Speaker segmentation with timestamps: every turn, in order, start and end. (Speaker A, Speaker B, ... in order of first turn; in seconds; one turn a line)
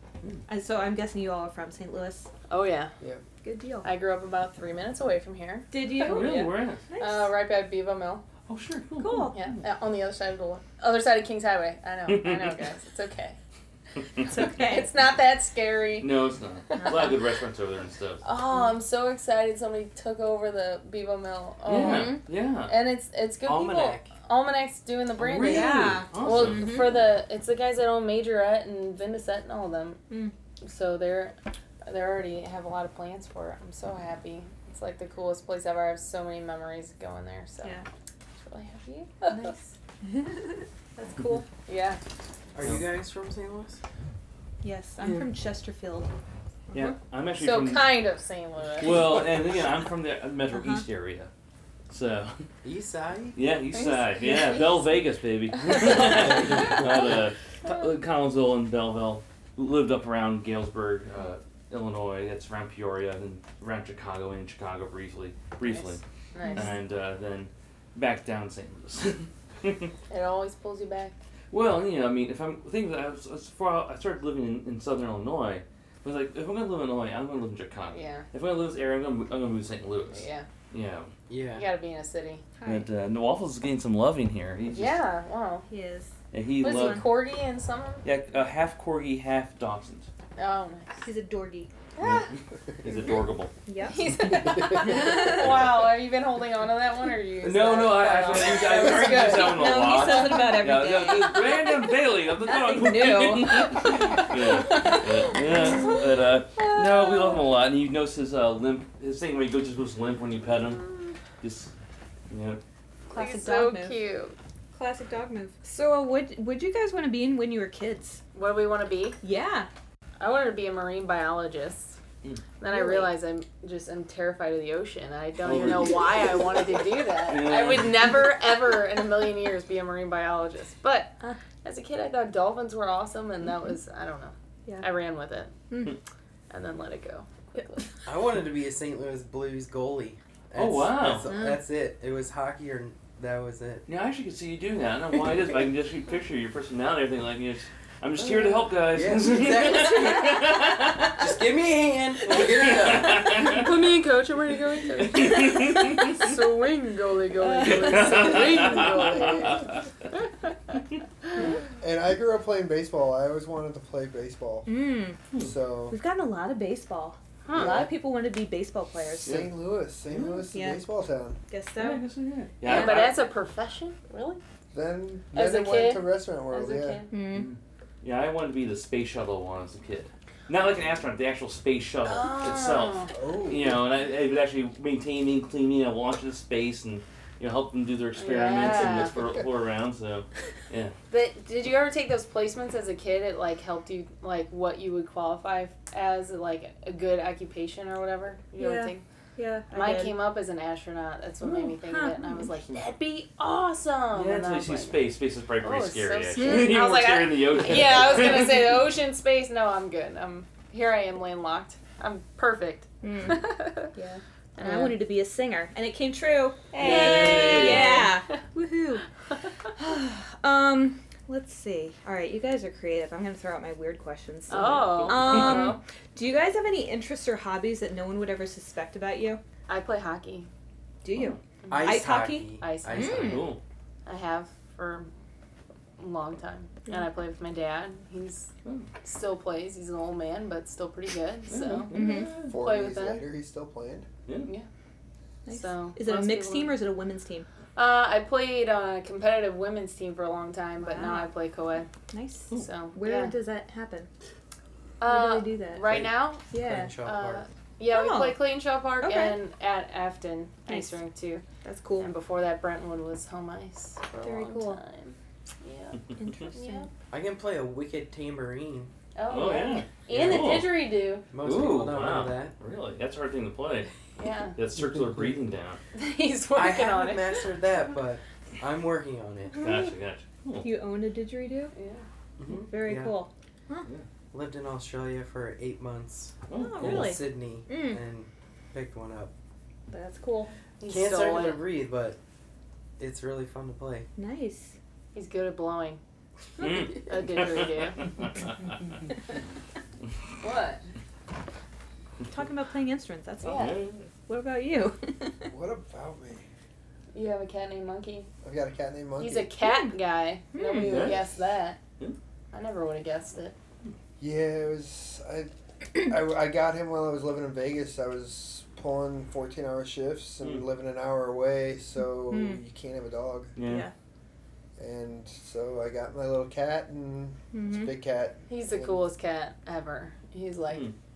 Speaker A: 0.5-2.3
Speaker B: 2.5-2.9
Speaker A: 3.4-3.9
Speaker B: 3.8-6.5
Speaker A: 5.7-7.3
Speaker C: 6.0-6.8
Speaker B: 7.0-8.2
Speaker C: 8.5-9.4
Speaker A: 9.0-9.4
Speaker B: 9.3-13.4
Speaker C: 12.1-12.6
Speaker C: 14.0-14.2
Speaker B: 14.2-16.2
Speaker A: 14.2-14.9
Speaker C: 16.0-18.2
Speaker B: 16.7-17.1
Speaker B: 18.2-30.0
Speaker C: 21.6-22.7
Speaker A: 21.7-22.2
Speaker D: 23.4-24.1
Speaker C: 25.3-27.0
Speaker A: 25.4-27.0
Speaker B: 30.6-31.3
Speaker B: 31.9-37.8
Speaker B: 38.4-39.6
Speaker A: 39.3-41.5
Speaker B: 41.6-42.0
Speaker D: 42.5-43.8
Speaker A: 44.6-46.1
Speaker C: 46.7-48.0
Speaker B: 47.4-49.1
Speaker C: 48.8-51.3
Speaker A: 50.5-50.8
Speaker C: 51.9-52.4
Speaker D: 52.6-53.4
Speaker C: 53.3-66.0
Speaker B: 53.8-54.6
Speaker B: 55.7-56.6
Speaker B: 65.7-66.8
Speaker A: 66.5-66.7
Speaker C: 66.5-69.9
Speaker B: 70.1-71.1
Speaker C: 71.5-81.1
Speaker B: 77.9-78.2
Speaker B: 80.1-80.5
Speaker D: 81.3-81.7
Speaker B: 81.5-82.4
Speaker A: 82.6-82.8
Speaker C: 82.6-85.0
Speaker B: 84.7-85.7
Speaker A: 85.7-87.1
Speaker C: 86.3-87.1
Speaker B: 86.6-88.0
Speaker C: 88.0-90.1
Speaker B: 90.4-91.0
Speaker A: 91.0-91.7
Speaker B: 92.0-92.3
Speaker C: 92.0-93.5
Speaker A: 93.7-94.1
Speaker B: 93.8-100.1
Speaker E: 94.5-94.8
Speaker C: 94.8-95.8
Speaker A: 94.8-95.4
Speaker D: 97.4-100.2
Speaker C: 97.4-111.7
Speaker A: 99.4-101.8
Speaker A: 102.4-106.0
Speaker B: 103.8-106.0
Speaker B: 106.6-107.4
Speaker C: 112.3-112.6
Speaker A: 113.1-114.0
Speaker B: 113.1-114.3
Speaker A: 114.7-118.2
Speaker B: 118.3-119.2
Speaker A: 119.2-119.7
Speaker B: 120.2-122.0
Speaker B: 122.6-135.5
Speaker A: 122.7-123.1
Speaker C: 125.4-126.6
Speaker C: 127.2-128.3
Speaker A: 135.7-136.0
Speaker B: 136.5-137.8
Speaker D: 138.0-143.8
Speaker C: 140.5-141.2
Speaker A: 141.3-141.6
Speaker C: 143.9-151.2
Speaker D: 148.4-153.6
Speaker C: 152.3-153.6
Speaker B: 153.2-159.6
Speaker C: 155.1-156.1
Speaker A: 157.5-158.3
Speaker C: 157.6-159.6
Speaker E: 158.8-159.6
Speaker E: 161.8-164.7
Speaker A: 164.7-165.2
Speaker E: 165.4-166.0
Speaker A: 165.9-169.5
Speaker B: 167.4-167.9
Speaker E: 167.5-167.9
Speaker E: 169.0-171.4
Speaker C: 170.1-170.4
Speaker A: 170.5-170.8
Speaker A: 171.5-172.0
Speaker C: 171.8-173.2
Speaker A: 172.6-173.1
Speaker B: 172.6-174.4
Speaker E: 174.7-177.0
Speaker B: 175.3-177.1
Speaker A: 177.1-177.5
Speaker C: 177.3-190.9
Speaker B: 182.0-183.1
Speaker E: 183.1-183.8
Speaker B: 188.2-189.2
Speaker B: 191.1-199.0
Speaker A: 198.6-200.2
Speaker B: 199.7-213.9
Speaker A: 201.6-202.4
Speaker C: 204.1-208.8
Speaker A: 206.4-206.8
Speaker A: 213.0-219.1
Speaker B: 214.6-215.0
Speaker B: 216.7-218.1
Speaker C: 216.8-218.0
Speaker D: 217.4-217.7
Speaker A: 219.7-229.4
Speaker B: 224.5-225.8
Speaker C: 224.8-225.7
Speaker B: 229.7-230.5
Speaker A: 231.0-233.4
Speaker B: 231.6-232.1
Speaker D: 231.7-233.5
Speaker B: 232.6-233.5
Speaker C: 233.0-233.6
Speaker B: 234.1-235.1
Speaker B: 236.0-238.5
Speaker B: 239.0-241.9
Speaker C: 241.5-242.5
Speaker A: 241.9-242.3
Speaker E: 242.5-244.1
Speaker B: 242.5-243.2
Speaker A: 245.4-247.5
Speaker B: 245.5-246.8
Speaker B: 247.8-251.9
Speaker A: 250.8-251.3
Speaker A: 252.1-254.1
Speaker B: 252.5-253.3
Speaker B: 255.0-256.4
Speaker A: 255.0-255.9
Speaker D: 255.9-257.4
Speaker A: 256.5-256.9
Speaker B: 257.0-261.4
Speaker A: 257.9-258.4
Speaker A: 259.0-259.4
Speaker A: 260.7-260.9
Speaker A: 261.6-262.1
Speaker B: 262.0-266.9
Speaker A: 264.2-264.8
Speaker A: 266.2-266.9
Speaker D: 267.1-268.9
Speaker B: 269.1-271.2
Speaker C: 269.3-270.7
Speaker D: 270.1-270.5
Speaker D: 271.3-272.5
Speaker C: 271.4-273.9
Speaker B: 274.2-274.6
Speaker C: 274.6-275.8
Speaker B: 275.9-277.4
Speaker D: 276.5-279.6
Speaker C: 279.6-280.7
Speaker A: 280.6-281.7
Speaker B: 281.7-282.0
Speaker D: 282.4-283.2
Speaker A: 282.5-283.9
Speaker D: 284.3-289.3
Speaker C: 286.5-287.2
Speaker A: 286.5-288.0
Speaker A: 289.9-290.5
Speaker B: 290.8-291.6
Speaker D: 290.8-292.2
Speaker D: 293.0-294.1
Speaker A: 294.1-294.7
Speaker B: 295.1-296.0
Speaker C: 296.6-298.6
Speaker B: 296.6-298.0
Speaker B: 300.4-300.8
Speaker A: 302.2-305.5
Speaker B: 303.4-303.8
Speaker C: 303.5-304.0
Speaker E: 305.4-306.4
Speaker B: 307.1-308.3
Speaker E: 308.4-309.5
Speaker B: 309.2-311.8
Speaker A: 309.6-309.9
Speaker A: 310.5-311.1
Speaker C: 310.8-311.2
Speaker B: 312.5-313.6
Speaker E: 314.2-323.5
Speaker A: 322.3-322.6
Speaker C: 323.6-323.9
Speaker A: 323.6-323.9
Speaker E: 324.8-329.0
Speaker A: 327.5-327.9
Speaker B: 328.5-330.9